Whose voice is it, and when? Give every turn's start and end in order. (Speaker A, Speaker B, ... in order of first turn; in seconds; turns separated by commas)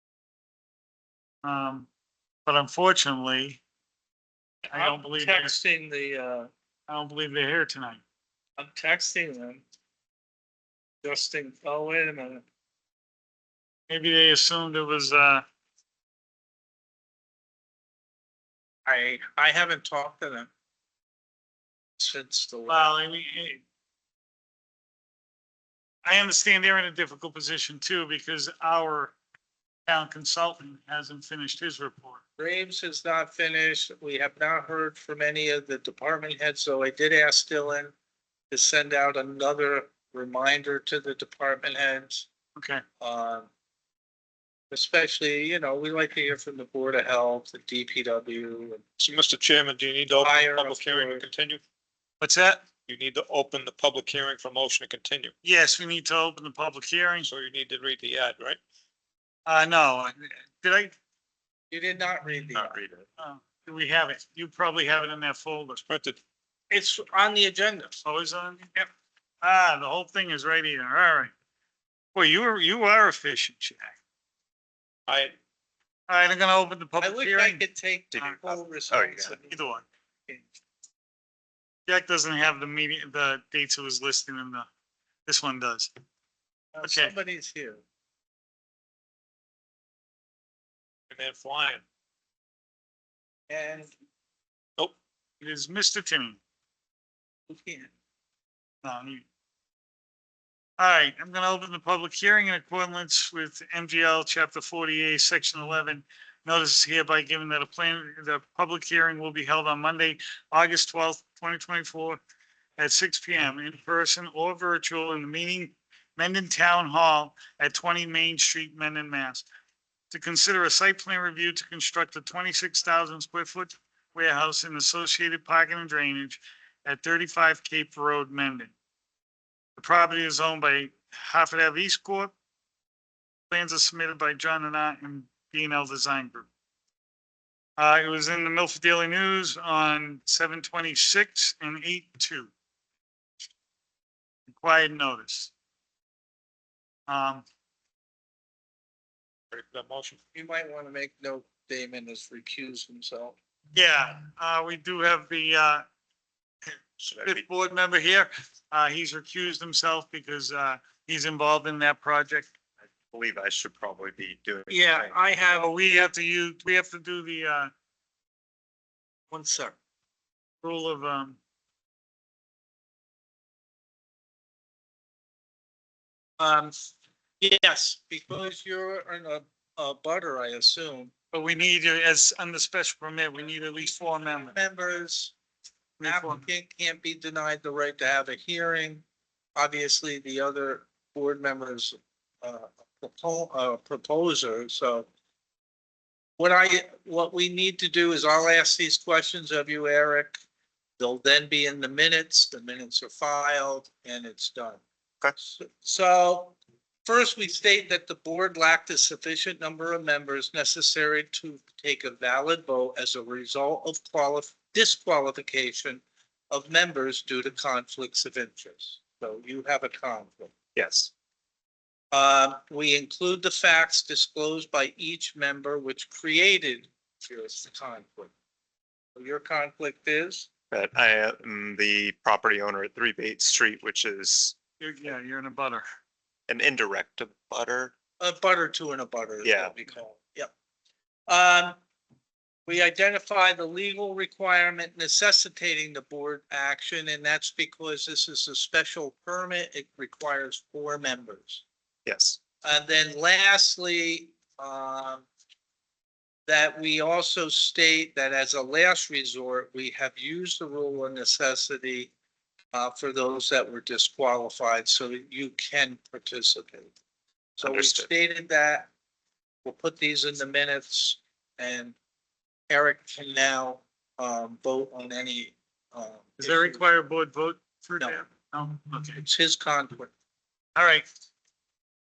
Speaker A: 1.4-1.9, Speaker A: 2.5-3.6, Speaker A: 4.7-5.5, Speaker B: 4.7-6.5, Speaker A: 6.9-8.0, Speaker B: 8.6-9.6, Speaker B: 11.0-12.4, Speaker A: 13.9-15.4, Speaker B: 18.9-20.5, Speaker B: 22.0-22.9, Speaker A: 22.7-23.6, Speaker A: 26.1-29.1, Speaker A: 29.9-32.2, Speaker B: 32.4-37.9, Speaker B: 38.5-42.3, Speaker A: 42.6-42.8, Speaker B: 43.0-43.5, Speaker B: 44.7-48.8, Speaker C: 49.0-51.6, Speaker B: 50.2-51.3, Speaker A: 52.2-52.6, Speaker C: 52.9-55.3, Speaker A: 55.4-57.3, Speaker C: 57.2-58.6, Speaker A: 59.5-60.9, Speaker B: 61.7-62.8, Speaker D: 62.5-63.1, Speaker A: 63.2-65.8, Speaker C: 65.8-66.2, Speaker B: 66.7-68.0, Speaker A: 68.0-68.8, Speaker A: 69.4-71.3, Speaker A: 72.2-74.0, Speaker C: 75.1-75.3, Speaker A: 76.1-77.6, Speaker B: 77.0-79.6, Speaker D: 78.1-79.3, Speaker A: 79.5-79.9, Speaker A: 81.9-84.7, Speaker A: 85.3-85.9, Speaker B: 86.7-87.8, Speaker A: 86.8-87.1, Speaker C: 91.1-91.8, Speaker B: 93.5-93.9, Speaker A: 95.4-96.4, Speaker B: 97.5-97.9, Speaker A: 98.8-99.2, Speaker A: 100.8-112.2, Speaker A: 112.8-119.5, Speaker A: 120.1-128.7, Speaker A: 129.8-132.3, Speaker A: 133.5-136.5, Speaker A: 137.8-142.5, Speaker A: 144.5-145.5, Speaker A: 147.1-147.4, Speaker C: 149.5-150.2, Speaker B: 150.3-153.4, Speaker A: 153.7-155.8, Speaker A: 156.7-162.5, Speaker D: 157.0-157.5, Speaker D: 163.0-165.2, Speaker B: 164.7-165.7, Speaker A: 165.5-167.7, Speaker B: 169.3-169.8, Speaker A: 170.6-171.4, Speaker B: 176.4-176.8, Speaker B: 177.4-181.1, Speaker A: 181.3-184.6, Speaker B: 184.2-185.3, Speaker A: 186.0-186.5, Speaker B: 186.0-189.0, Speaker B: 189.6-195.1, Speaker B: 196.4-200.4, Speaker B: 201.0-204.8, Speaker B: 205.4-220.6, Speaker D: 220.8-221.1, Speaker B: 222.1-228.3, Speaker B: 229.2-230.5, Speaker D: 230.7-234.6, Speaker A: 234.8-235.8, Speaker D: 236.5-237.9, Speaker B: 238.2-240.5, Speaker D: 239.4-239.8, Speaker B: 241.3-241.8, Speaker B: 242.7-251.6, Speaker D: 252.1-252.4, Speaker B: 252.6-255.3, Speaker B: 256.5-262.1, Speaker B: 262.7-266.9, Speaker B: 267.6-268.9, Speaker D: 267.6-268.1, Speaker B: 269.6-272.0, Speaker B: 272.7-276.9, Speaker A: 276.4-279.2, Speaker B: 279.2-280.1, Speaker A: 280.8-281.1